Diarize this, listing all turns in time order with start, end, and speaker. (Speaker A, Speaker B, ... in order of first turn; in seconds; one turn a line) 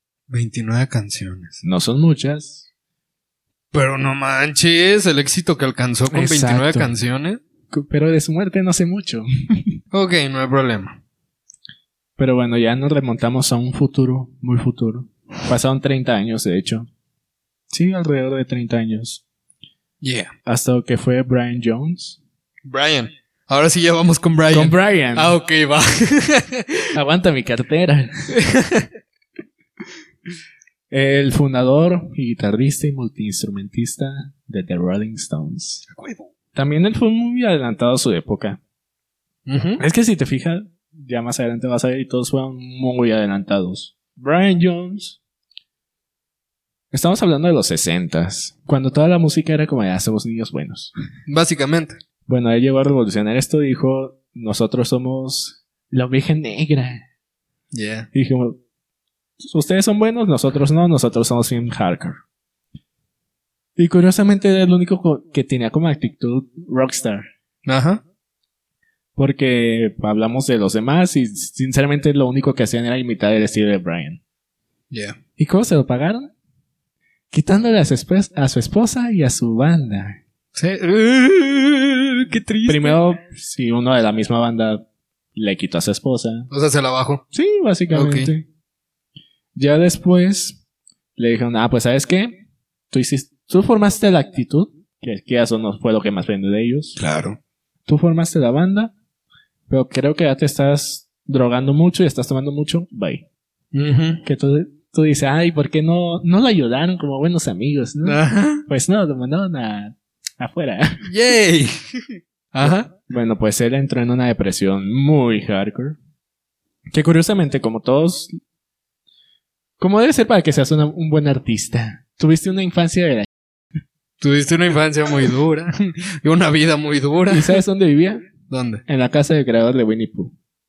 Speaker A: 0.3-1.6
Speaker B: 1.6-2.6
Speaker A: 3.7-7.4
Speaker B: 6.1-6.9
Speaker B: 7.7-9.8
Speaker A: 9.9-11.0
Speaker B: 12.2-16.9
Speaker B: 17.7-19.2
Speaker A: 20.0-20.3
Speaker B: 20.4-22.2
Speaker A: 22.6-26.9
Speaker B: 24.5-25.4
Speaker B: 26.9-28.1
Speaker A: 28.3-28.9
Speaker B: 30.9-35.8
Speaker A: 35.9-36.3
Speaker B: 36.5-38.6
Speaker A: 39.5-39.8
Speaker B: 39.8-45.2
Speaker B: 46.9-50.9
Speaker A: 51.3-51.9
Speaker B: 52.3-57.0
Speaker A: 57.7-58.1
Speaker B: 58.1-58.6
Speaker B: 59.4-62.2
Speaker B: 63.8-67.3
Speaker A: 67.6-68.0
Speaker B: 69.2-74.2
Speaker A: 74.9-75.2
Speaker B: 75.4-76.3
Speaker B: 77.3-80.2
Speaker A: 80.5-83.0
Speaker B: 82.7-84.8
Speaker B: 85.3-86.5
Speaker A: 86.5-87.2
Speaker B: 87.3-88.5
Speaker A: 87.9-88.3
Speaker B: 89.5-90.6
Speaker B: 91.2-92.3
Speaker B: 92.9-97.0
Speaker A: 97.0-97.4
Speaker B: 97.9-98.9
Speaker B: 99.7-103.2
Speaker A: 103.7-104.2
Speaker B: 104.2-111.1
Speaker A: 108.0-108.6
Speaker A: 111.0-112.9
Speaker B: 112.6-116.0
Speaker B: 116.9-118.3
Speaker B: 119.8-123.3
Speaker A: 124.2-127.5
Speaker B: 127.3-128.3
Speaker A: 128.5-128.8
Speaker B: 128.9-130.3